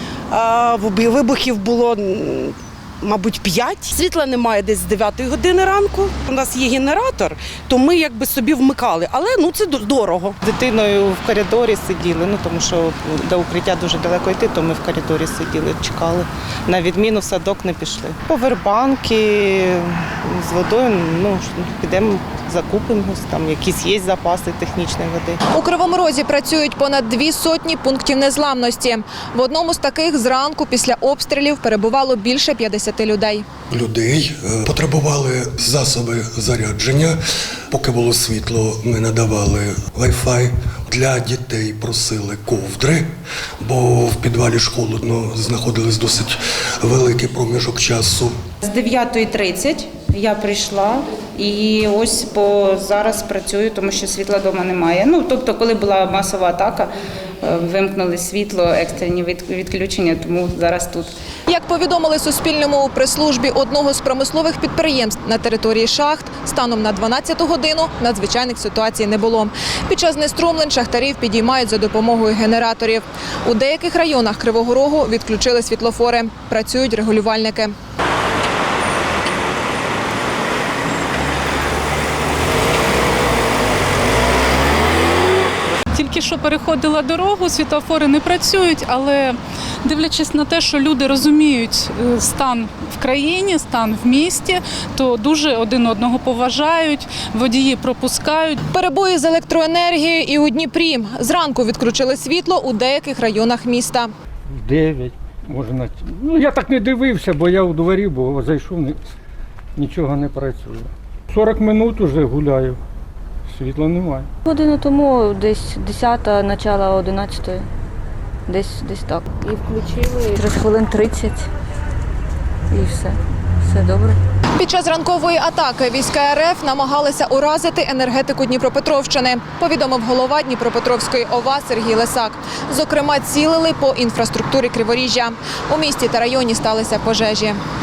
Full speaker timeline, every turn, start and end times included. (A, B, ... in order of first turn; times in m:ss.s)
0:00.3-0:10.3 A
0:10.4-0:25.4 B
0:25.5-0:33.4 C
0:33.7-0:37.2 D
0:37.7-0:48.4 D
0:48.6-0:56.9 E
0:57.4-1:01.1 E
1:01.5-1:17.7 C
1:25.9-1:38.6 F
1:38.7-1:44.1 C
1:44.5-1:49.0 G
1:49.8-1:52.8 G
1:53.5-1:54.3 G
1:54.4-1:57.7 H
1:58.5-2:01.4 H
2:02.7-2:04.2 H
2:04.6-2:17.6 C